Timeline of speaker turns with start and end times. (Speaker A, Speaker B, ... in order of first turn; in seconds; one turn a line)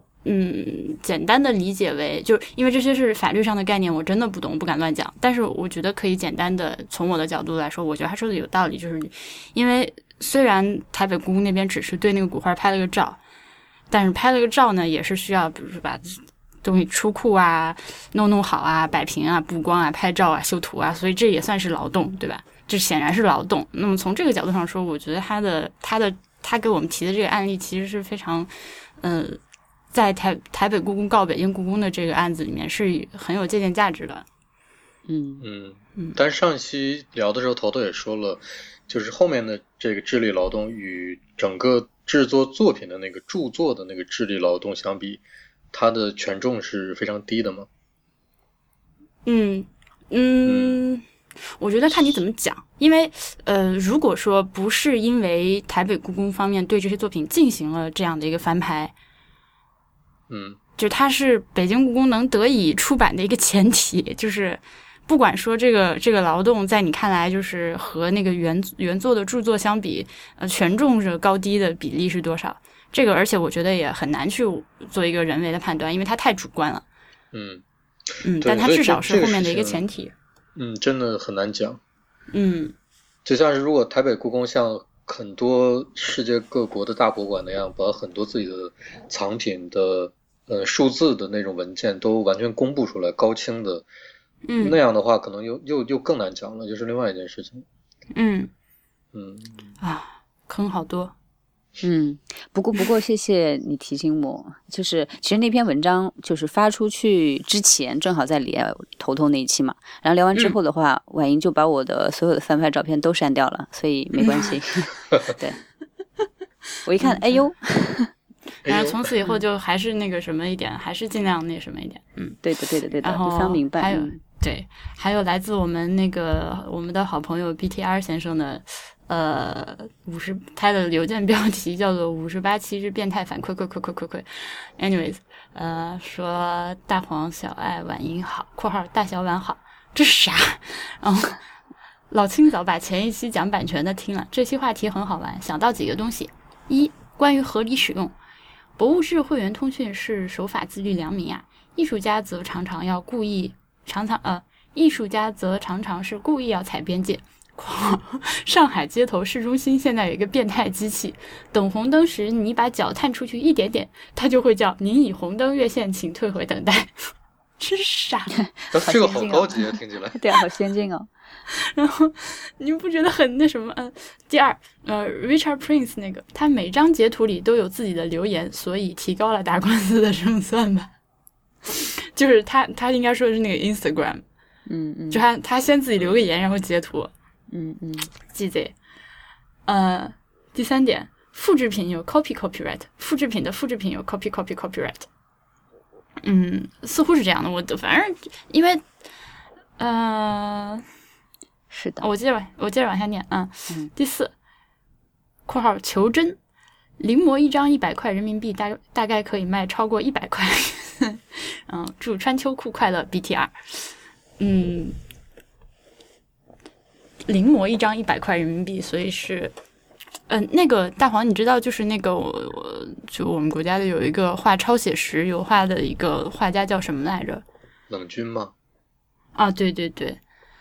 Speaker A: 0.2-13.2
Speaker A: 13.9-29.4
Speaker A: 29.9-34.3
Speaker B: 35.1-35.4
Speaker C: 35.4-45.2
Speaker C: 45.7-47.7
Speaker A: 49.2-51.0
Speaker C: 50.5-50.8
Speaker A: 51.6-59.0
Speaker C: 60.3-60.6
Speaker A: 60.8-76.8
Speaker C: 77.3-77.6
Speaker A: 78.2-80.1
Speaker C: 78.4-79.8
Speaker C: 80.6-81.8
Speaker A: 82.3-82.8
Speaker C: 83.2-93.8
Speaker A: 94.5-94.8
Speaker C: 94.6-97.7
Speaker A: 98.1-98.5
Speaker C: 99.1-99.7
Speaker A: 99.8-101.1
Speaker B: 101.8-115.6
Speaker A: 114.2-114.5
Speaker B: 116.9-118.1
Speaker C: 118.7-119.0
Speaker A: 118.7-122.4
Speaker B: 122.4-124.2
Speaker A: 123.0-141.4
Speaker A: 142.1-148.1
Speaker A: 148.8-167.1
Speaker A: 167.6-168.4
Speaker B: 168.6-171.1
Speaker C: 168.7-170.4
Speaker A: 171.7-180.9
Speaker A: 181.7-184.2
Speaker B: 184.7-185.2
Speaker A: 185.1-187.1
Speaker B: 187.5-188.1
Speaker A: 188.3-188.8
Speaker A: 189.7-195.1
Speaker A: 196.2-198.8
Speaker A: 199.8-200.8
Speaker B: 201.7-202.1
Speaker A: 202.0-204.3
Speaker A: 205.5-206.4
Speaker A: 207.0-215.0
Speaker A: 217.3-219.5
Speaker A: 220.3-227.4
Speaker C: 227.9-228.5
Speaker A: 229.3-230.2